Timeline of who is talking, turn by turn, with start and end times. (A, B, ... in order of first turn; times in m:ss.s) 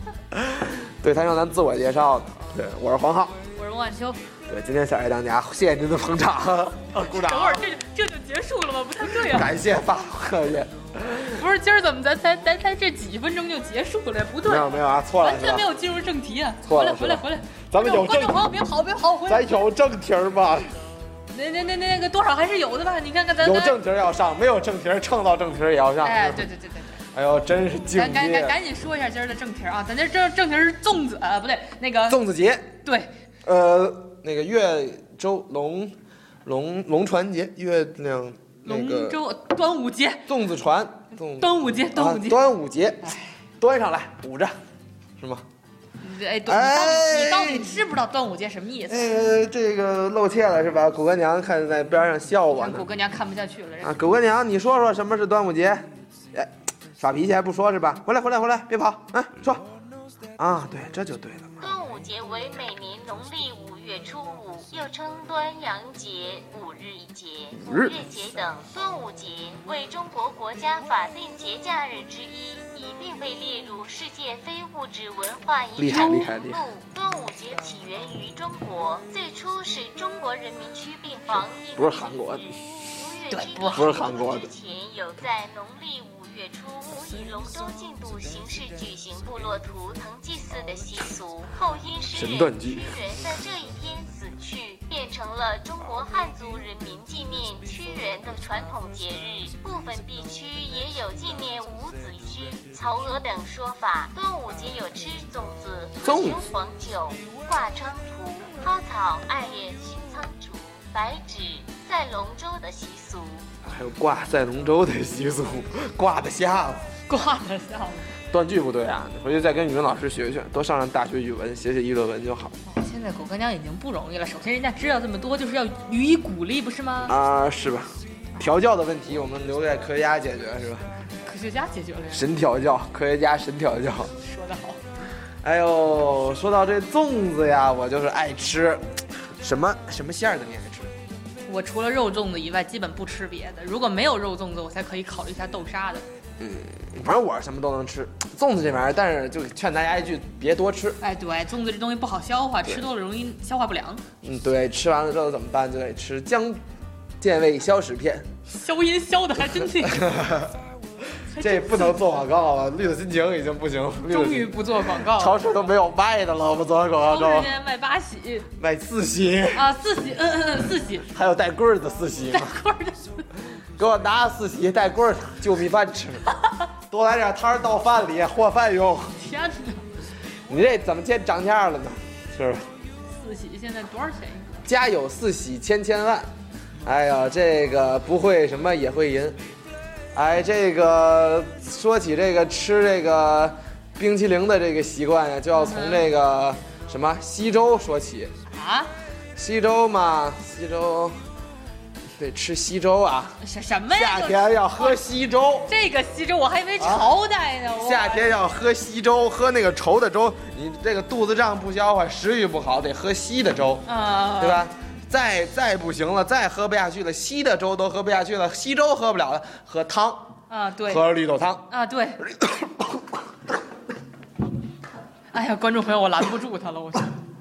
0:00.3-0:03.4 A
0:03.6-0:04.2 B
0:04.5-0:07.7 A
0:07.0-0:09.5 B
0:09.2-0:11.4 A
0:11.3-0:19.6 B
0:14.4-0:15.7 A
0:16.6-0:18.4 A
0:19.2-0:20.7 A
0:21.3-0:23.8 B
0:23.4-0:26.5 A
0:26.0-0:27.0 B
0:27.1-0:28.6 A
0:27.9-0:32.2 B
0:32.1-0:32.7 A
0:32.8-0:33.1 B
0:33.4-0:39.2 A
0:38.6-0:40.2 B
0:40.3-0:44.6 A
0:41.4-0:42.4 B
0:43.0-0:43.3 B
0:45.2-0:45.4 A
0:46.0-0:49.1 B
0:46.4-0:47.8 A
0:48.9-0:52.9 A
0:52.5-0:54.0 B
0:53.8-0:59.6 A
1:00.4-1:01.6 A
1:01.6-1:53.4 C
1:07.6-1:08.0 A
1:15.8-1:16.6 A
1:15.9-1:16.3 B
1:21.8-1:22.5 A
1:23.3-1:23.9 B
1:23.7-1:24.5 A
1:32.1-1:32.9 A
1:46.0-1:46.4 A
1:53.6-1:56.9 A
1:57.1-1:58.1 B
1:58.3-2:02.6 A
2:02.7-2:07.2 B
2:07.0-2:10.9 A
2:11.2-2:12.3 B
2:12.1-2:14.1 A
2:14.2-2:14.8 B
2:15.4-2:18.8 A
2:19.4-2:20.9 A
2:21.5-2:26.1 B
2:26.4-2:31.0 A
2:31.0-2:34.0 B
2:34.2-2:36.6 A
2:37.2-2:38.3 A
2:38.5-2:40.1 B
2:39.8-2:40.6 A
2:41.3-2:42.0 B
2:41.4-2:47.5 A
2:44.1-2:45.6 B
2:47.1-2:48.5 B
2:48.6-2:49.7 A
2:49.5-2:51.1 B
2:51.1-2:52.6 A
2:52.3-2:53.3 B
2:53.8-2:56.2 A
2:56.9-2:59.2 A
2:59.2-2:59.8 B
3:00.5-3:02.7 A
3:03.1-3:04.6 B
3:04.6-3:06.3 A
3:06.8-3:09.4 A
3:10.1-3:18.3 A
3:15.5-3:16.0 B
3:18.5-3:18.9 B
3:19.4-3:21.2 A
3:22.2-3:23.4 A
3:23.4-3:25.0 B
3:23.9-3:25.7 A
3:25.7-3:28.3 B
3:26.8-3:27.1 A
3:27.8-3:40.2 A
3:33.9-3:34.6 B
3:40.5-3:41.0 B
3:40.9-3:41.6 A
3:41.7-3:42.2 B
3:42.4-3:43.0 A
3:45.3-3:47.1 B